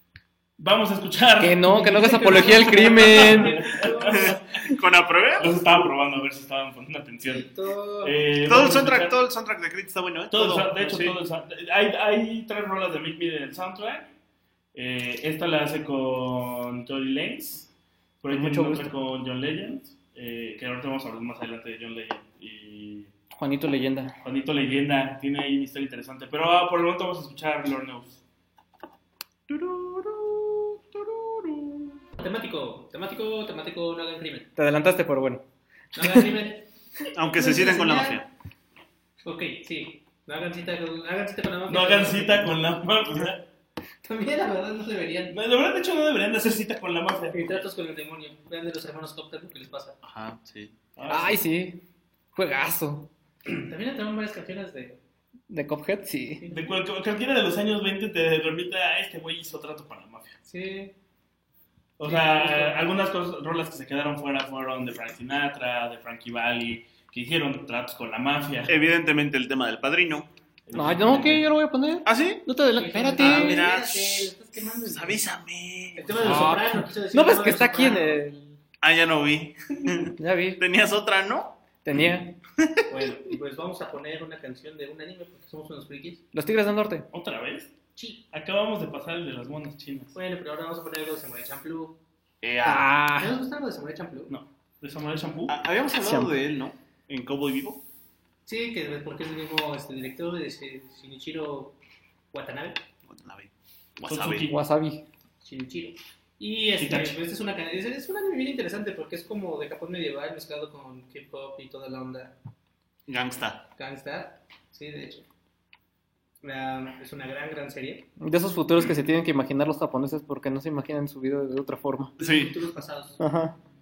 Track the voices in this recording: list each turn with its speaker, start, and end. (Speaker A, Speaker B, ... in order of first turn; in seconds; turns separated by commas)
Speaker A: 0.6-4.7, Speaker B: 1.4-3.6, Speaker C: 1.9-4.4, Speaker D: 4.1-5.6, Speaker A: 5.4-7.5, Speaker C: 7.2-8.2, Speaker A: 8.0-9.2, Speaker D: 8.4-11.2, Speaker A: 10.3-14.1, Speaker A: 14.7-23.1, Speaker B: 18.3-18.9, Speaker B: 23.4-24.1, Speaker A: 24.2-28.2, Speaker D: 29.5-31.7, Speaker C: 32.2-34.5, Speaker B: 34.6-35.4, Speaker C: 36.0-36.7, Speaker B: 36.0-36.3, Speaker D: 37.1-38.3, Speaker C: 37.2-38.2, Speaker C: 39.2-42.6, Speaker A: 41.7-43.4, Speaker C: 44.0-45.4, Speaker A: 45.3-47.6, Speaker C: 47.3-50.0, Speaker D: 50.0-50.8, Speaker A: 51.0-51.4, Speaker B: 51.1-51.8, Speaker B: 52.4-53.1, Speaker C: 53.5-55.0, Speaker B: 55.5-56.5, Speaker C: 56.4-56.8, Speaker A: 56.5-60.4, Speaker C: 60.5-60.9, Speaker A: 62.0-68.7, Speaker C: 62.0-62.9, Speaker D: 68.7-70.3, Speaker A: 70.7-71.5, Speaker B: 70.7-73.7, Speaker D: 72.1-72.5, Speaker C: 72.8-75.3, Speaker D: 73.2-76.6, Speaker C: 76.0-78.2, Speaker B: 76.2-78.6, Speaker D: 78.8-81.6, Speaker B: 80.2-80.6, Speaker B: 81.8-82.4, Speaker D: 82.6-82.9, Speaker C: 82.9-86.2, Speaker B: 86.3-87.1, Speaker A: 87.1-87.7, Speaker C: 88.0-88.2, Speaker A: 88.3-90.2, Speaker C: 90.1-92.0, Speaker D: 92.4-92.9, Speaker B: 92.7-93.4, Speaker C: 93.2-94.3, Speaker A: 94.3-95.6, Speaker D: 95.5-97.8, Speaker B: 96.0-96.3, Speaker C: 98.5-101.8, Speaker C: 102.3-102.8, Speaker D: 103.1-104.5, Speaker A: 104.1-104.6, Speaker B: 104.5-105.1, Speaker C: 105.4-112.4, Speaker A: 106.8-107.2, Speaker D: 113.1-113.7, Speaker C: 113.8-115.2, Speaker C: 116.4-118.1, Speaker B: 118.2-122.2, Speaker C: 122.2-123.2, Speaker D: 122.2-122.6, Speaker B: 123.2-123.6